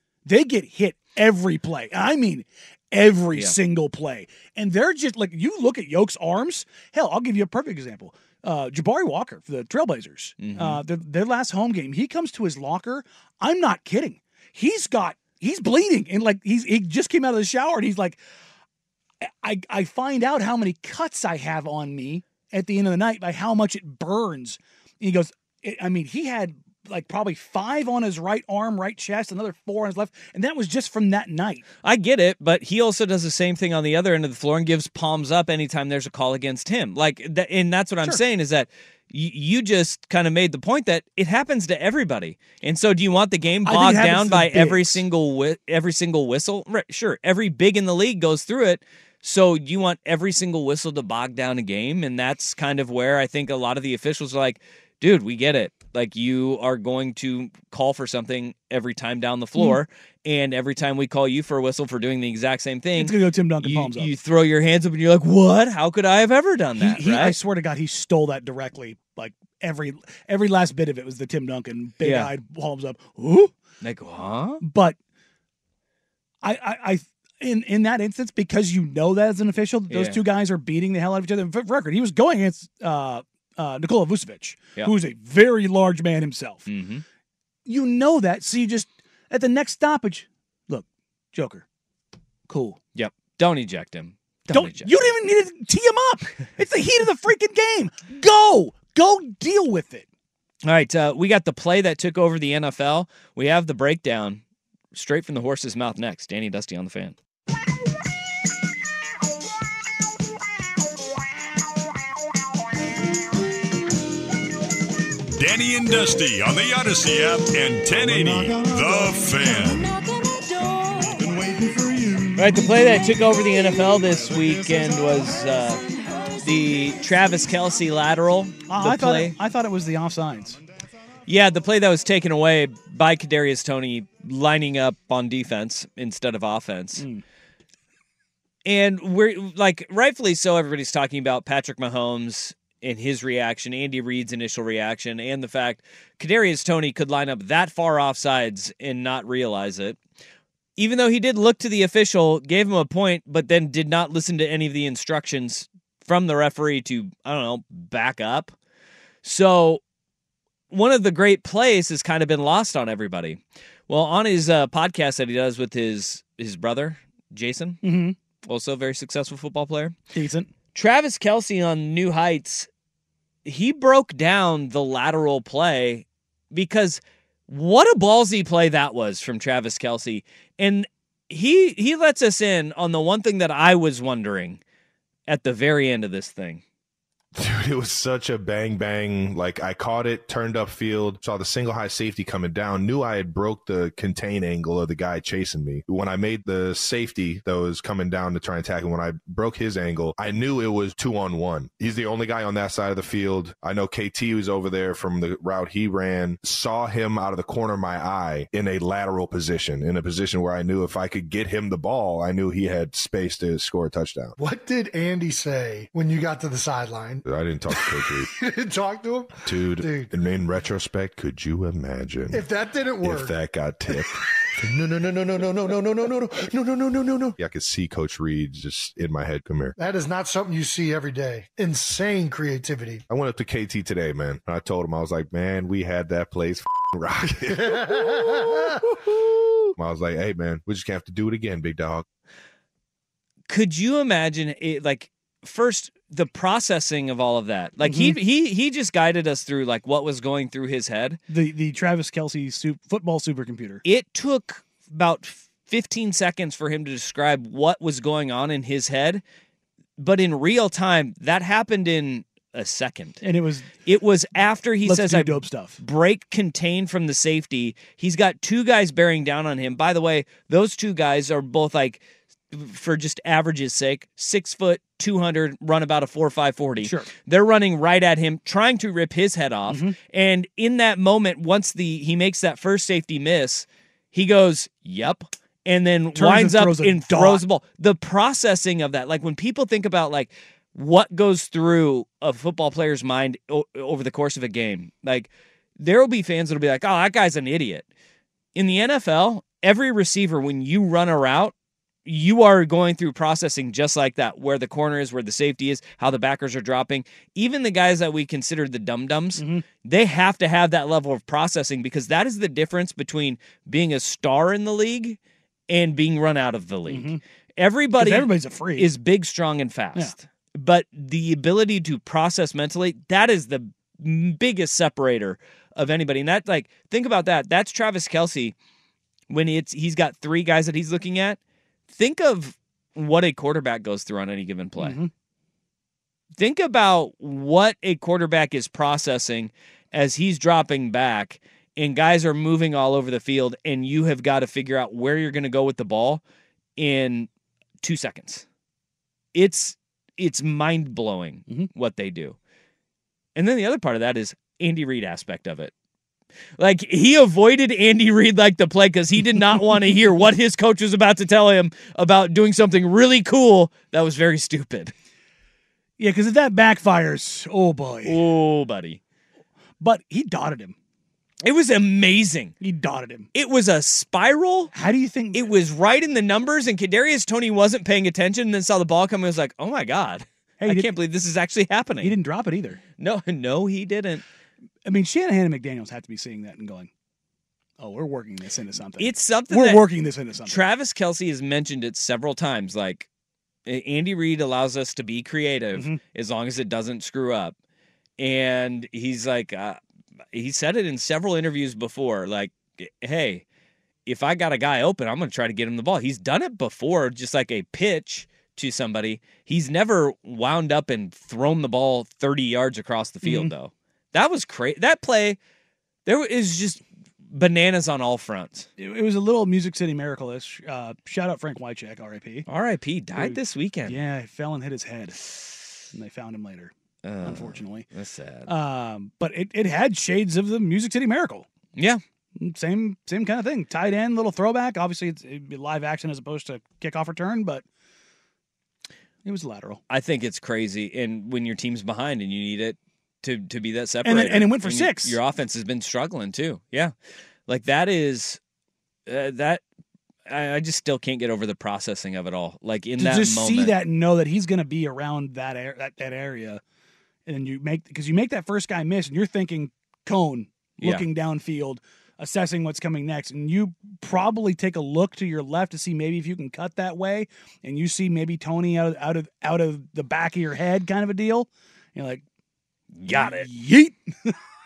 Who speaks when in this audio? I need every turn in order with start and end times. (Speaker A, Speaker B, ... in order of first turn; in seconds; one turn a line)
Speaker A: 0.3-18.2
Speaker B: 3.3-3.6
Speaker B: 10.4-10.8
Speaker A: 19.2-31.6
Speaker B: 31.8-67.4
Speaker A: 43.6-45.0
Speaker A: 63.0-64.1
Speaker A: 66.8-73.5
Speaker B: 72.0-72.3
Speaker B: 73.8-74.6
Speaker A: 74.6-75.0
Speaker A: 76.4-86.7
Speaker B: 79.9-80.3
Speaker B: 86.7-87.0
Speaker A: 87.7-91.6
Speaker A: 92.5-92.8
Speaker B: 92.9-95.0
Speaker A: 94.5-100.1
Speaker B: 100.6-104.4
Speaker B: 104.9-107.2
Speaker C: 115.4-120.0
Speaker B: 122.4-125.8
Speaker B: 126.4-129.4
Speaker A: 128.7-130.6
Speaker B: 131.3-137.1
Speaker A: 136.9-137.2
Speaker B: 138.6-150.0
Speaker B: 150.8-158.6
Speaker B: 159.2-159.8
Speaker B: 160.7-167.8
Speaker A: 167.8-168.2
Speaker B: 168.4-170.0
Speaker A: 170.1-170.5
Speaker B: 170.7-172.7
Speaker B: 173.4-184.6
Speaker B: 185.3-186.6
Speaker D: 187.4-214.4
Speaker E: 214.4-220.1
Speaker D: 217.2-218.3
Speaker D: 219.4-222.4
Speaker E: 222.3-223.3
Speaker D: 223.0-224.2
Speaker E: 224.6-227.4
Speaker D: 227.4-229.8
Speaker E: 229.8-233.0
Speaker D: 233.1-238.6
Speaker E: 237.7-238.5
Speaker D: 239.8-242.1
Speaker B: 243.5-251.2
Speaker A: 247.8-248.2
Speaker A: 251.3-253.8
Speaker B: 253.8-259.2
Speaker B: 260.0-263.2
Speaker A: 263.2-263.7
Speaker B: 263.9-297.9
Speaker A: 264.8-265.8
Speaker A: 276.8-277.1
Speaker A: 279.7-279.9
Speaker A: 286.1-287.4
Speaker B: 298.6-301.5
Speaker B: 302.1-315.2
Speaker A: 309.4-309.6
Speaker B: 315.7-328.5
Speaker A: 316.9-317.2
Speaker A: 318.0-318.9
Speaker B: 329.3-331.4
Speaker B: 331.9-335.0
Speaker A: 334.8-335.1
Speaker B: 336.4-346.2
Speaker B: 346.8-347.3
Speaker B: 347.8-348.4
Speaker B: 349.3-352.4
Speaker B: 353.3-355.7
Speaker B: 356.6-364.9
Speaker A: 366.0-368.2
Speaker B: 368.0-369.0
Speaker A: 369.8-370.8
Speaker B: 371.4-372.6
Speaker A: 372.6-373.3
Speaker B: 373.3-374.7
Speaker A: 374.7-375.5
Speaker B: 375.3-382.2
Speaker A: 380.6-380.9
Speaker A: 382.0-382.8
Speaker B: 383.0-384.2
Speaker A: 384.8-386.9
Speaker A: 387.8-390.6
Speaker B: 389.0-389.9
Speaker B: 390.4-393.1
Speaker B: 393.6-397.6
Speaker A: 395.7-396.0
Speaker B: 398.2-399.8
Speaker B: 400.3-403.4
Speaker B: 404.1-415.4
Speaker A: 413.2-413.5
Speaker B: 416.1-418.7
Speaker A: 418.8-422.4
Speaker B: 422.5-424.0
Speaker A: 423.2-425.2
Speaker A: 425.9-426.7
Speaker B: 427.1-428.5
Speaker A: 427.2-427.9
Speaker A: 428.4-431.5
Speaker B: 431.8-432.0
Speaker A: 432.4-437.6
Speaker A: 439.2-439.8
Speaker B: 439.9-446.9
Speaker A: 444.0-445.2
Speaker B: 447.5-448.4
Speaker B: 449.1-449.6
Speaker B: 450.3-453.8
Speaker A: 453.0-456.6
Speaker A: 457.3-472.2
Speaker B: 460.8-461.1
Speaker B: 473.0-473.5
Speaker A: 473.1-474.3